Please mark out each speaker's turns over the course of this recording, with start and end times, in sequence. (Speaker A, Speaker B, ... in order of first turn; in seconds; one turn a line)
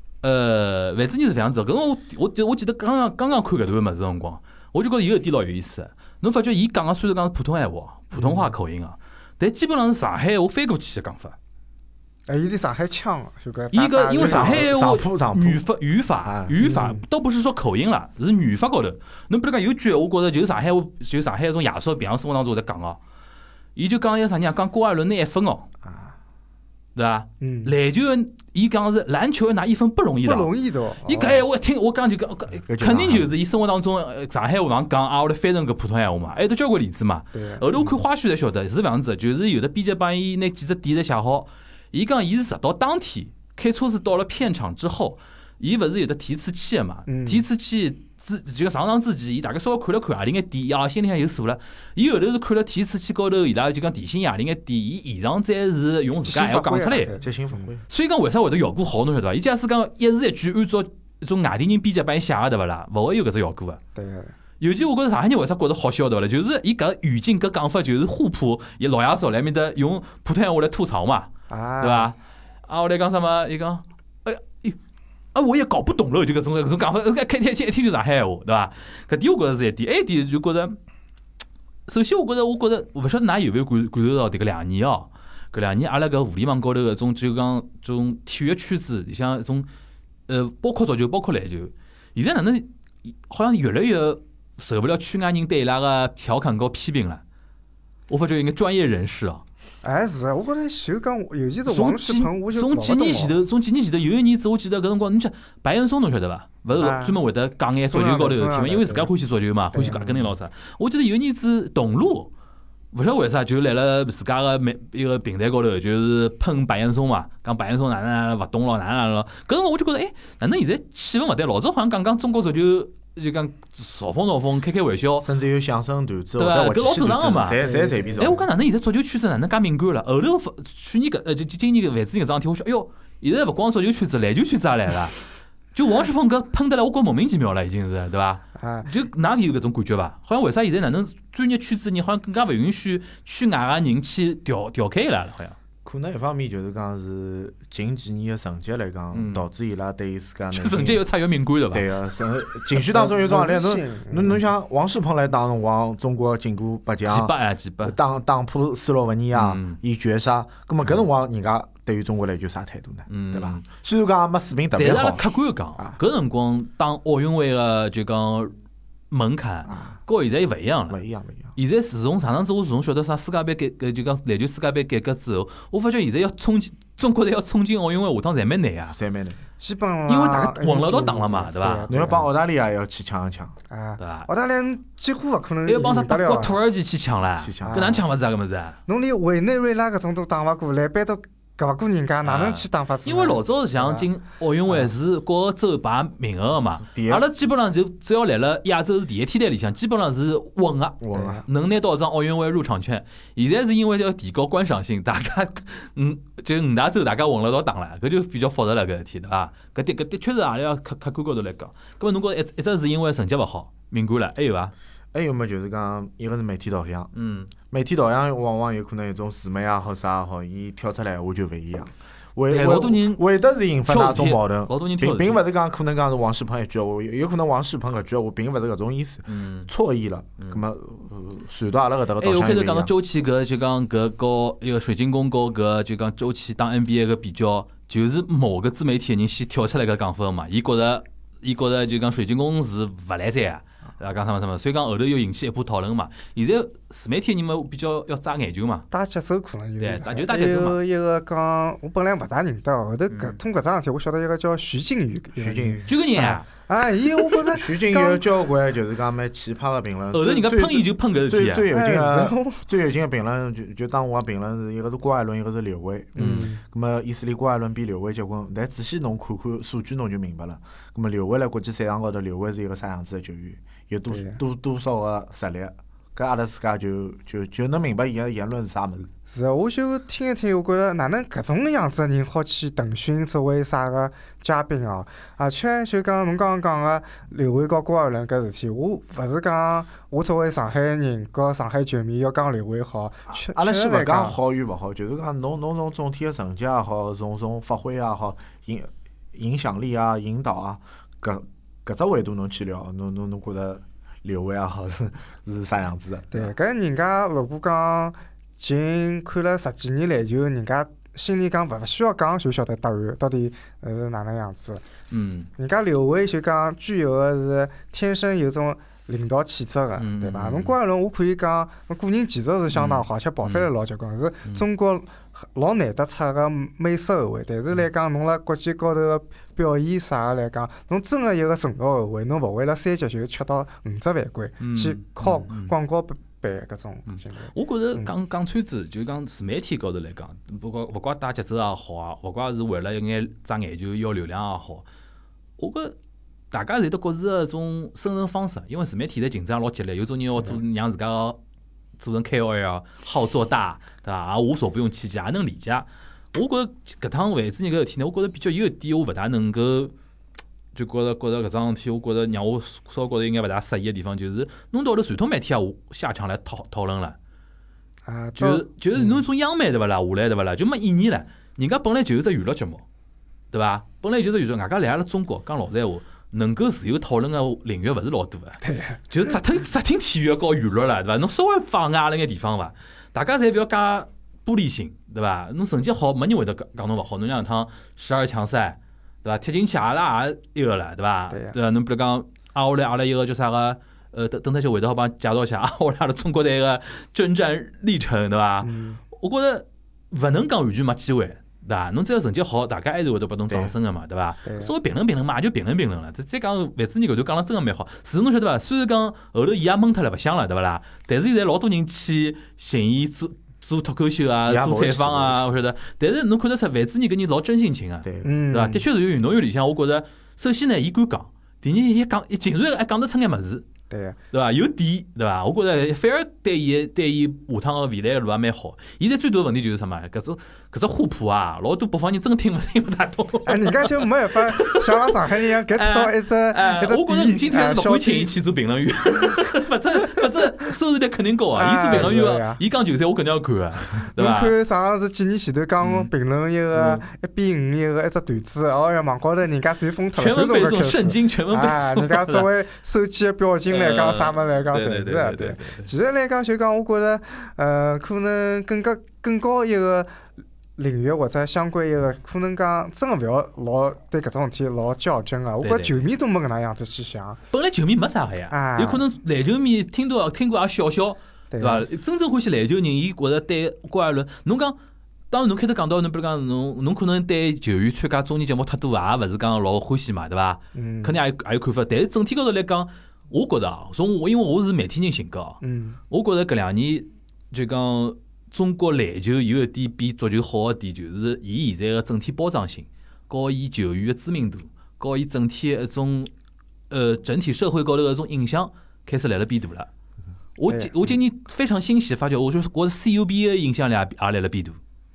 Speaker A: 0.2-11.4
Speaker B: 8.1-8.5
Speaker B: 12.3-14.7
Speaker A: 13.7-23.0
Speaker C: 14.1-15.6
Speaker C: 16.2-16.6
Speaker B: 16.6-17.1
Speaker A: 23.8-25.7
Speaker C: 25.9-26.1
Speaker A: 27.0-30.5
Speaker B: 27.4-27.7
Speaker B: 30.2-31.4
Speaker A: 31.1-57.1
Speaker C: 32.7-33.3
Speaker B: 37.3-38.0
Speaker B: 47.1-47.4
Speaker B: 56.3-57.3
Speaker C: 57.1-57.8
Speaker A: 57.9-63.8
Speaker B: 64.0-64.3
Speaker A: 64.6-71.3
Speaker B: 71.5-72.1
Speaker A: 71.8-72.2
Speaker A: 72.7-74.8
Speaker A: 75.3-80.8
Speaker A: 81.9-89.7
Speaker A: 90.3-92.7
Speaker A: 93.3-97.2
Speaker A: 98.1-99.4
Speaker B: 99.8-103.4
Speaker A: 101.7-112.3
Speaker B: 106.7-107.2
Speaker B: 107.9-109.1
Speaker B: 109.7-110.3
Speaker A: 112.9-125.3
Speaker C: 125.2-128.5
Speaker A: 126.4-127.6
Speaker B: 127.6-128.4
Speaker A: 128.2-135.2
Speaker A: 135.8-145.6
Speaker B: 138.6-138.9
Speaker C: 145.8-151.0
Speaker A: 149.1-149.4
Speaker A: 150.5-151.9
Speaker C: 151.7-166.0
Speaker B: 152.8-154.4
Speaker A: 157.1-158.0
Speaker A: 159.3-159.8
Speaker A: 163.1-163.6
Speaker A: 164.8-168.5
Speaker A: 169.1-171.0
Speaker C: 169.7-170.0
Speaker C: 170.9-171.6
Speaker A: 171.6-179.0
Speaker C: 178.9-179.4
Speaker B: 179.6-182.3
Speaker A: 180.1-181.9
Speaker C: 181.9-183.6
Speaker B: 183.7-186.6
Speaker A: 184.0-184.3
Speaker A: 185.7-188.8
Speaker C: 187.4-188.0
Speaker B: 187.6-188.0
Speaker B: 188.9-194.1
Speaker A: 192.2-214.7
Speaker C: 196.8-197.3
Speaker C: 201.0-201.4
Speaker B: 201.1-201.4
Speaker C: 215.1-217.1
Speaker A: 217.1-217.5
Speaker C: 217.7-232.9
Speaker A: 222.5-223.2
Speaker A: 223.9-225.4
Speaker A: 229.3-229.7
Speaker A: 232.2-248.9
Speaker B: 248.9-258.2
Speaker A: 249.8-250.8
Speaker A: 253.1-253.4
Speaker C: 255.4-256.0
Speaker A: 255.9-256.5
Speaker C: 257.4-279.1
Speaker A: 260.1-261.7
Speaker B: 261.7-262.6
Speaker B: 266.2-266.6
Speaker A: 266.2-266.5
Speaker B: 274.1-274.4
Speaker B: 279.3-294.4
Speaker C: 293.3-306.5
Speaker B: 306.3-314.8
Speaker A: 315.1-315.5
Speaker B: 315.6-338.1
Speaker A: 320.0-320.8
Speaker A: 322.7-323.7
Speaker A: 334.6-335.7
Speaker A: 337.1-344.9
Speaker A: 345.6-345.9
Speaker A: 346.5-351.4
Speaker A: 352.0-359.9
Speaker A: 360.8-367.2
Speaker B: 368.1-369.2
Speaker A: 368.4-372.8
Speaker A: 373.5-423.7
Speaker B: 378.6-379.0
Speaker B: 391.3-391.6
Speaker B: 398.6-399.0
Speaker C: 403.5-403.8
Speaker B: 404.4-404.7
Speaker C: 414.5-415.5
Speaker C: 418.0-418.3
Speaker B: 418.2-418.9
Speaker B: 423.9-424.2
Speaker A: 424.3-444.6
Speaker B: 433.5-438.3
Speaker B: 441.6-442.6
Speaker B: 444.1-460.1
Speaker A: 445.8-446.1
Speaker A: 446.7-447.0
Speaker A: 450.2-452.5
Speaker A: 453.7-455.9
Speaker B: 460.8-467.4
Speaker A: 465.6-465.9
Speaker A: 467.5-474.8
Speaker B: 468.5-469.0
Speaker B: 471.5-471.9
Speaker A: 475.3-496.3
Speaker B: 480.8-481.2
Speaker B: 485.6-486.0
Speaker A: 496.9-499.9
Speaker A: 500.6-504.8
Speaker B: 500.7-500.9